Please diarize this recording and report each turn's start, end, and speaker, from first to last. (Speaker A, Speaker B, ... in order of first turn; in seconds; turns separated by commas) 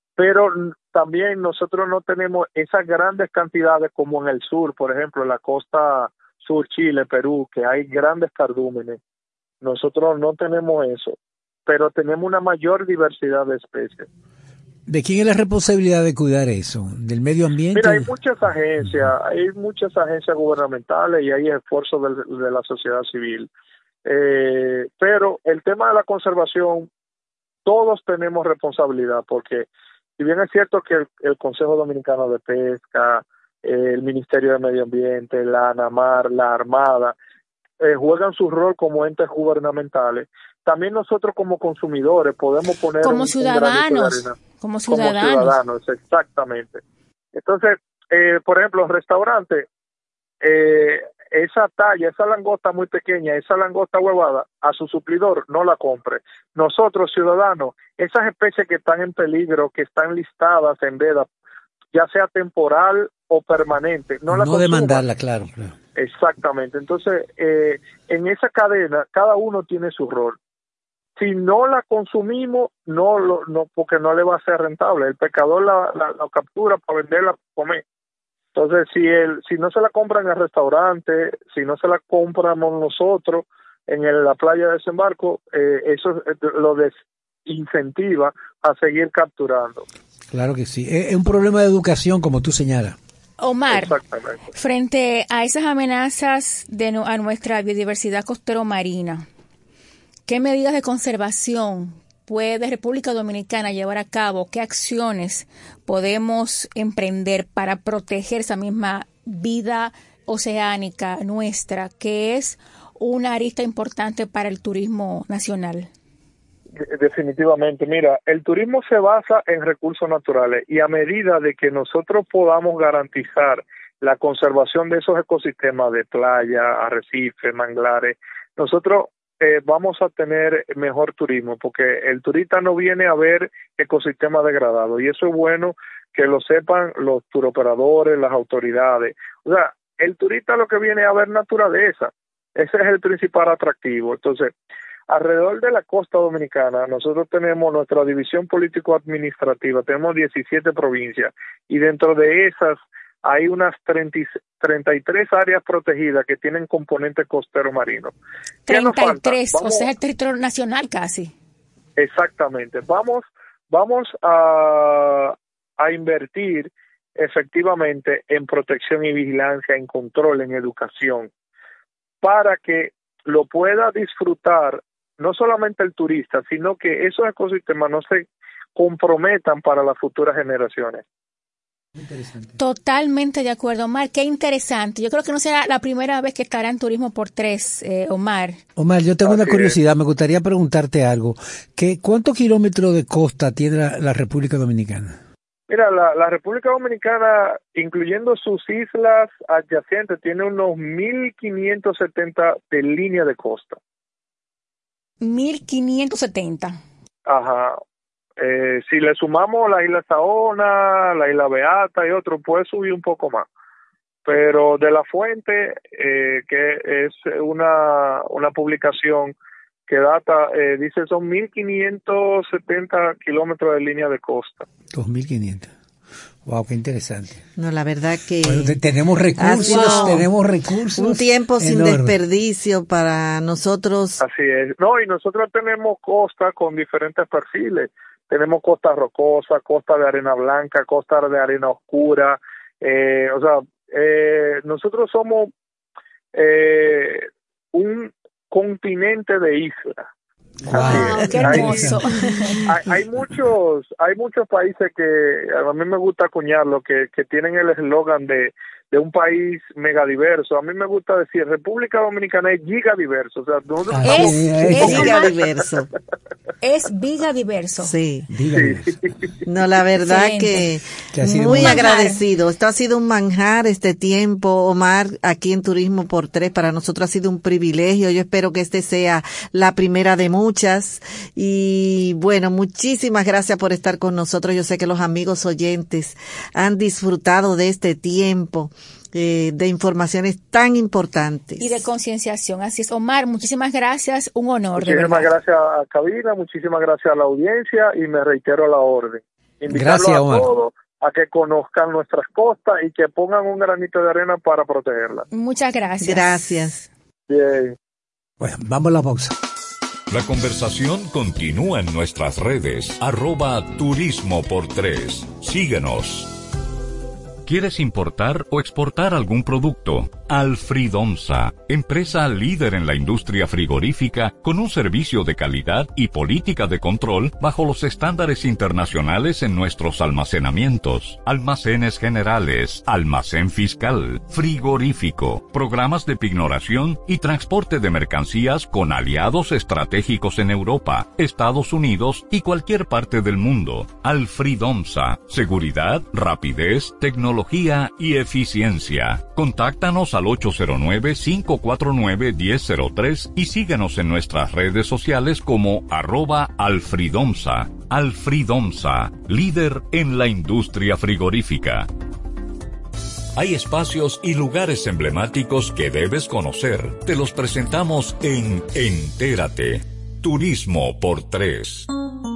Speaker A: 0.2-9.0, Speaker A: 9.6-14.1, Speaker B: 14.9-18.1, Speaker A: 17.8-23.5, Speaker A: 24.1-26.9, Speaker A: 27.6-29.7, Speaker A: 30.2-37.1, Speaker A: 37.8-44.4, Speaker C: 43.0-45.6, Speaker A: 44.9-46.8, Speaker A: 47.3-49.7, Speaker A: 50.4-61.3, Speaker A: 61.9-65.0, Speaker B: 64.3-65.8, Speaker A: 65.9-70.4, Speaker A: 71.2-77.8, Speaker A: 78.5-86.9, Speaker A: 87.5-89.9, Speaker B: 90.3-93.0, Speaker C: 93.4-93.9, Speaker A: 93.7-94.4, Speaker C: 94.5-99.2, Speaker C: 100.3-115.9, Speaker A: 116.8-144.5, Speaker A: 145.1-158.1, Speaker A: 158.7-159.9, Speaker C: 158.7-161.3, Speaker A: 162.0-171.3, Speaker A: 172.2-181.0, Speaker C: 182.6-188.6, Speaker B: 188.8-195.2, Speaker A: 189.2-189.7, Speaker A: 195.7-203.8, Speaker C: 205.2-206.8, Speaker A: 207.3-207.8, Speaker A: 208.4-213.5, Speaker A: 214.3-219.3, Speaker A: 219.9-224.7, Speaker B: 224.9-225.7, Speaker B: 226.4-227.4, Speaker D: 227.6-228.8, Speaker B: 228.4-232.1, Speaker D: 229.4-230.3, Speaker D: 231.0-234.2, Speaker A: 234.2-245.5, Speaker A: 246.3-250.1, Speaker B: 250.7-252.1, Speaker A: 250.7-252.0, Speaker C: 250.7-252.6, Speaker A: 252.7-265.2, Speaker B: 263.9-265.1, Speaker C: 264.0-265.3, Speaker D: 264.6-265.9, Speaker C: 266.6-267.9, Speaker D: 267.8-268.3, Speaker B: 268.3-268.9, Speaker A: 268.5-269.3, Speaker D: 269.5-291.7, Speaker C: 270.0-270.6, Speaker B: 271.1-271.8, Speaker C: 271.4-272.2, Speaker C: 291.6-295.3, Speaker A: 294.8-305.2, Speaker B: 299.7-300.5, Speaker C: 305.3-306.4, Speaker D: 306.0-306.8, Speaker A: 307.3-307.8, Speaker B: 308.4-309.4, Speaker E: 310.1-316.3, Speaker E: 317.5-361.9, Speaker E: 363.4-371.9